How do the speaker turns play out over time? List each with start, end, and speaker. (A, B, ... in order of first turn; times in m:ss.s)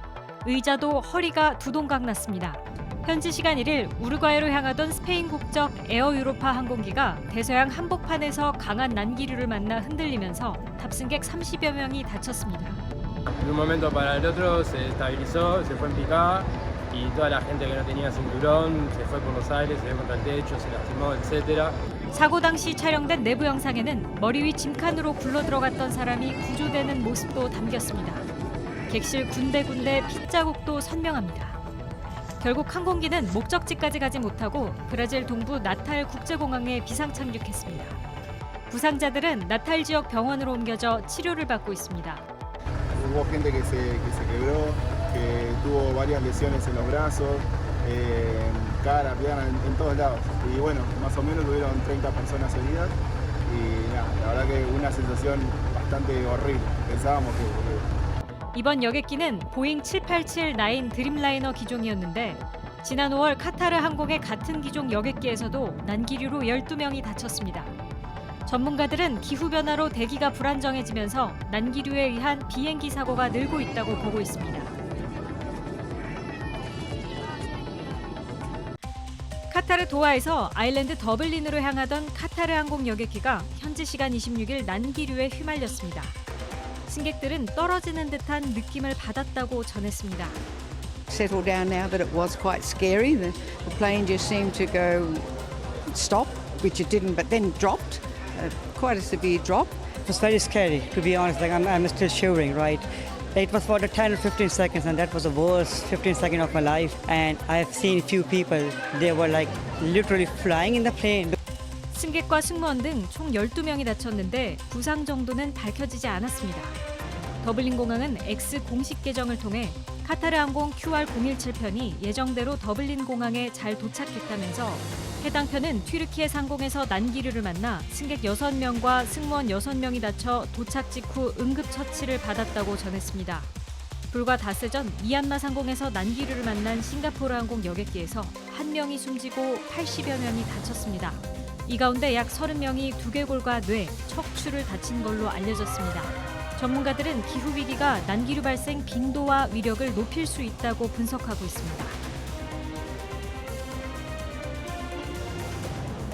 0:00.4-0:12.8 A
0:13.4-0:21.8 B
0:22.1-0:28.2 A
0:28.9-0:31.6 A
0:32.4-0:38.0 A
0:38.7-0:42.2 A
0:42.9-0:57.8 C
0:58.5-1:07.7 A
1:08.4-1:14.7 A
1:19.5-1:26.1 A
1:26.9-1:30.4 A
1:31.1-1:35.3 D
1:35.9-1:39.7 D
1:40.0-1:51.4 E
1:51.9-1:56.7 A
1:57.4-2:13.5 A
2:14.1-2:32.0 A